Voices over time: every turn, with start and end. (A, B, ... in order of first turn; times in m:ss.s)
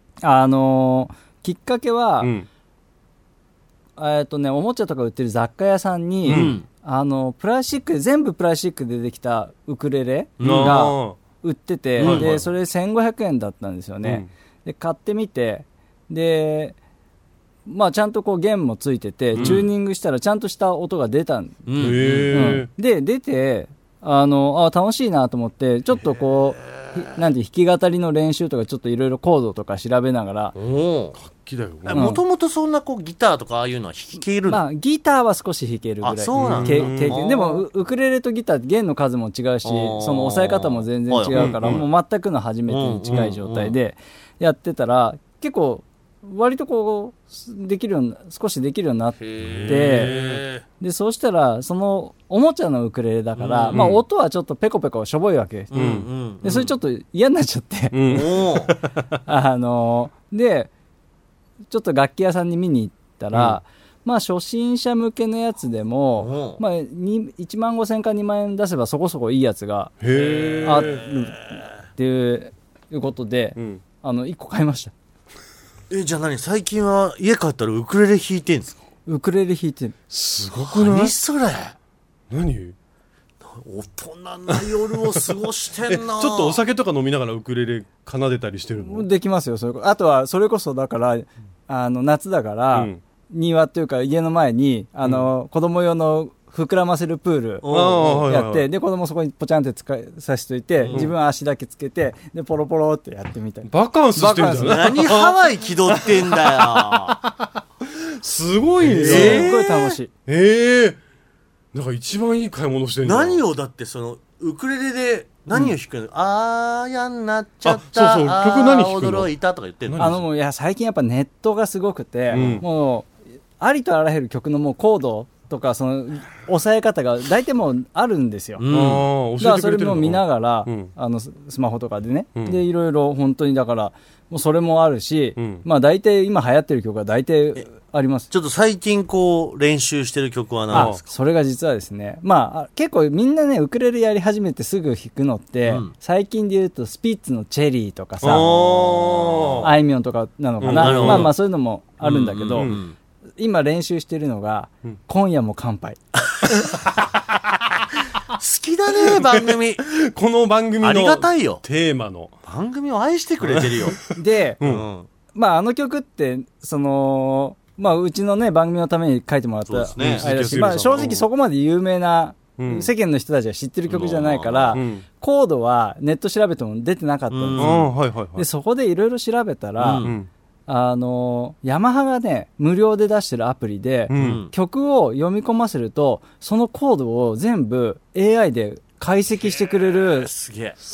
0:00.2-0:02.3 A
0:02.2-0:02.5 B
0:04.0-0:16.8 A
0:06.2-0:06.6 B
0:06.3-0:06.7 C
0:10.4-0:10.8 C
0:10.4-0:11.2 B
0:12.0-0:12.3 C
0:12.0-0:12.5 B
0:14.0-0:14.3 B
0:17.7-0:21.7 A
0:19.3-0:19.7 B
0:19.4-0:19.6 C
0:21.7-0:22.6 C
0:21.8-0:22.7 B
0:22.3-0:30.6 A
0:30.6-0:31.2 C
0:31.2-0:32.1 B
0:31.8-0:34.6 C
0:31.9-0:32.2 A
0:34.5-0:50.2 A
0:36.0-0:37.6 C
0:36.4-0:37.2 B
0:39.6-0:41.8 C
0:41.3-0:41.8 B
0:42.7-0:43.8 C
0:49.2-0:50.6 C
0:49.4-0:50.4 B
0:50.8-0:55.7 A
0:53.4-0:53.8 C
0:53.7-0:54.0 B
0:55.7-0:56.5 C
0:55.7-0:56.7 B
0:56.4-0:58.2 A
0:57.9-0:58.9 B
0:58.1-0:58.7 C
0:59.3-1:00.7 A
1:01.7-1:10.0 A
1:03.3-1:03.6 B
1:06.2-1:06.6 C
1:10.0-1:11.0 B
1:10.1-1:11.6 C
1:10.6-1:14.9 A
1:13.6-1:13.8 B
1:15.9-1:18.8 C
1:19.1-1:19.9 A
1:20.1-1:21.1 B
1:20.5-1:21.8 C
1:22.3-1:22.8 B
1:23.4-1:26.6 C
1:24.5-1:25.0 B
1:25.9-1:29.1 B
1:28.8-1:37.7 A
1:32.7-1:33.0 B
1:37.6-1:38.3 C
1:37.7-1:38.7 B
1:38.2-1:45.0 A
1:40.8-1:41.1 C
1:40.9-1:41.1 B
1:43.7-1:49.5 B
1:44.4-1:47.2 C
1:48.8-1:50.0 C
1:49.0-1:50.1 A
1:50.3-1:51.0 B
1:51.7-1:53.4 B
1:53.0-2:00.1 C
1:57.6-1:59.3 B
1:59.9-2:00.2 B
2:00.0-2:03.1 A
2:02.3-2:02.6 B
2:03.6-2:08.6 A
2:08.6-2:09.1 C
2:08.7-2:10.9 B
2:09.4-2:18.3 A
2:12.4-2:12.6 B
2:15.4-2:15.6 B
2:18.3-2:21.0 C
2:20.7-2:28.5 A
2:20.7-2:21.0 B
2:25.7-2:25.9 C
2:28.2-2:29.8 B
2:28.3-2:29.7 C
2:29.6-2:32.7 A
2:30.6-2:31.3 B
2:30.7-2:31.3 C
2:32.0-2:33.0 C
2:33.4-2:36.0 A
2:38.3-2:39.8 C
2:39.0-2:42.3 B
2:40.8-2:41.6 C
2:42.4-2:44.1 C
2:43.4-2:44.9 B
2:44.1-2:44.6 A
2:44.6-2:45.1 C
2:45.3-3:00.1 A
2:49.7-2:50.3 C
2:50.0-2:51.3 B
2:52.6-2:52.9 B
2:53.9-2:54.8 C
2:54.7-2:55.0 B
2:57.3-2:57.9 C
2:57.6-2:58.5 B
2:59.8-3:00.2 C
3:00.0-3:00.3 B
3:00.7-3:10.3 A
3:04.1-3:04.4 B
3:04.2-3:04.5 C
3:09.4-3:10.8 C